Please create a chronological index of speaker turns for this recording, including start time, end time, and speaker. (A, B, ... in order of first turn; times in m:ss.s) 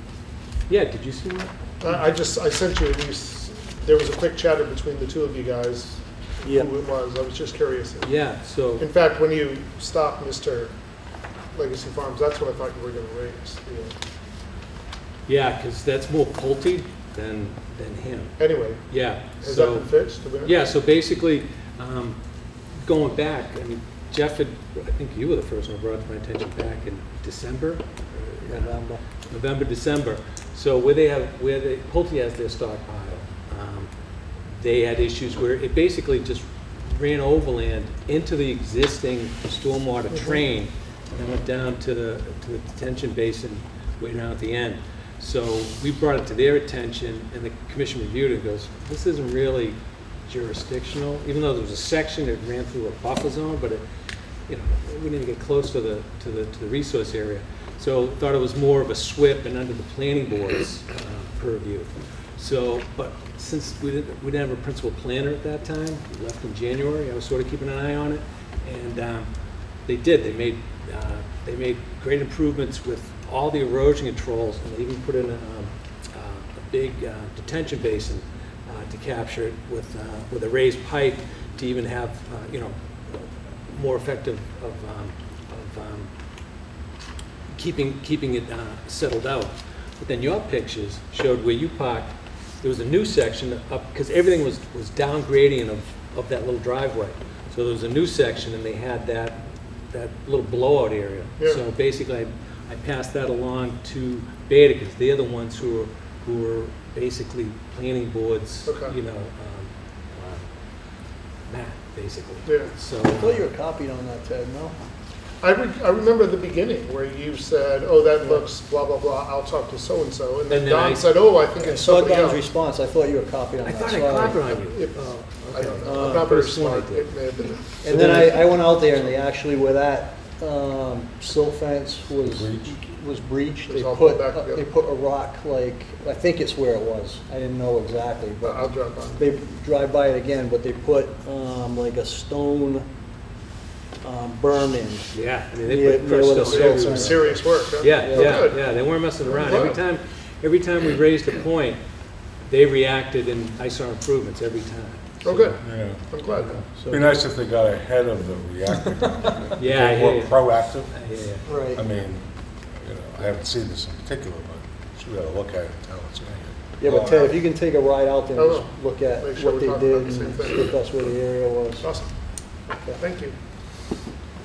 0:00.7-0:01.6 A
0:01.8-0:14.0 B
0:06.4-0:06.7 C
0:08.0-0:08.9 A
0:15.3-1:26.2 A
0:18.4-0:20.7 B
0:28.1-0:29.0 C
0:40.1-0:40.4 B
1:27.5-1:53.5 A
1:41.4-1:41.6 B
1:48.6-1:49.0 B
1:52.4-1:52.8 B
1:53.0-1:54.8 C
1:55.4-2:02.5 B
1:58.2-1:58.5 C
2:00.5-2:01.2 A
2:01.5-2:04.5 C
2:03.6-2:07.2 A
2:04.5-2:07.8 B
2:05.8-2:06.3 C
2:07.8-2:23.0 C
2:07.9-2:08.4 A
2:12.2-2:12.8 D
2:13.7-2:14.7 B
2:18.4-2:19.4 B
2:24.0-2:25.1 C
2:25.1-2:35.8 A
2:25.6-2:28.5 C
2:26.4-2:29.8 B
2:35.2-2:36.7 B
2:35.6-2:36.0 D
2:36.4-2:37.3 C
2:36.9-2:47.2 D
2:39.6-2:41.5 A
2:41.4-2:41.9 C
2:46.8-2:53.0 C
2:46.9-2:47.5 B
2:48.3-2:51.2 B
2:51.8-2:53.4 B